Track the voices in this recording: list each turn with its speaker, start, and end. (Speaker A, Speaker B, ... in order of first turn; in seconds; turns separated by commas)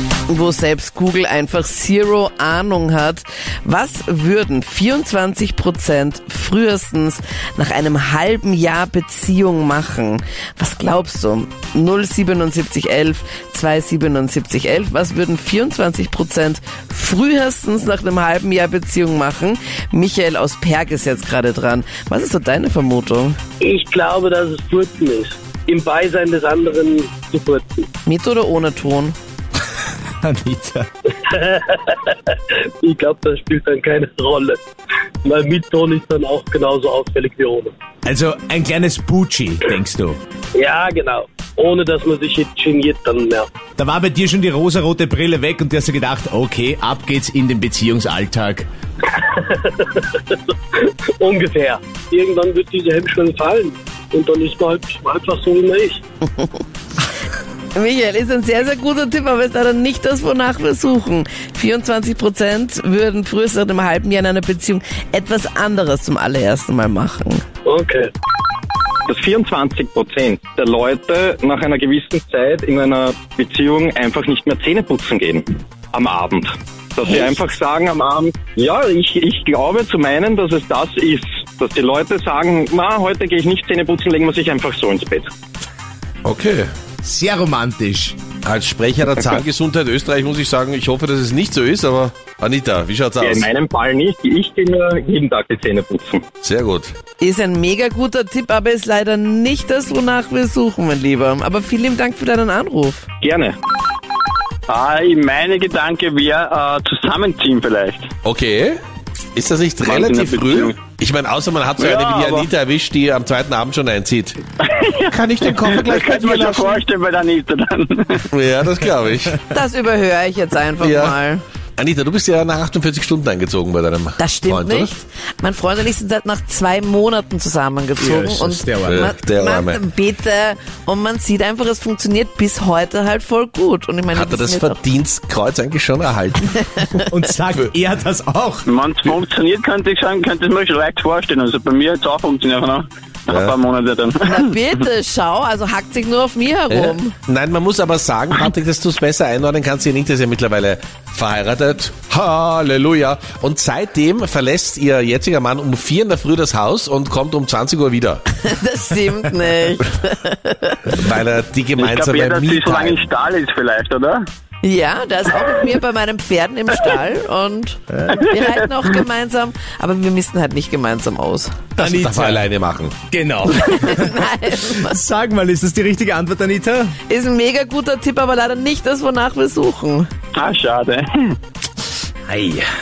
Speaker A: 0.3-23.4, Speaker B: 23.6-27.9, Speaker A: 28.1-29.1, Speaker C: 30.2-30.9, Speaker B: 31.2-34.6, Speaker B: 35.2-37.7, Speaker C: 38.0-40.2, Speaker B: 40.5-43.5, Speaker C: 43.8-48.7, Speaker B: 49.2-50.4, Speaker B: 51.2-56.0, Speaker A: 57.7-67.4, Speaker B: 67.7-68.1, Speaker D: 69.1-85.3, Speaker E: 86.2-86.7, Speaker C: 87.0-88.2, Speaker E: 88.4-93.5, Speaker D: 93.2-96.3, Speaker E: 96.4-96.9, Speaker A: 97.2-103.0, Speaker D: 103.2-103.6, Speaker F: 104.7-108.1, Speaker E: 108.2-108.8, Speaker E: 109.3-114.4, Speaker F: 109.8-110.8, Speaker F: 111.8-112.5, Speaker F: 114.7-118.2, Speaker E: 115.1-116.8, Speaker E: 118.3-119.4, Speaker A: 119.5-121.4, Speaker E: 120.8-121.2, Speaker E: 121.8-124.9, Speaker A: 124.2-134.8, Speaker C: 128.0-129.1, Speaker E: 128.8-129.8, Speaker E: 134.1-136.7, Speaker A: 136.6-137.1, Speaker C: 137.1-138.7, Speaker F: 138.7-144.4, Speaker E: 143.3-143.6, Speaker A: 144.2-147.1, Speaker E: 146.7-158.2, Speaker A: 158.4-161.0, Speaker E: 160.9-163.1, Speaker F: 161.8-164.2, Speaker A: 164.6-171.5, Speaker E: 171.8-173.0, Speaker C: 171.8-172.4, Speaker C: 173.1-174.2, Speaker A: 173.5-175.0, Speaker C: 174.8-176.9, Speaker A: 177.1-180.1, Speaker F: 180.3-181.4, Speaker C: 182.3-182.6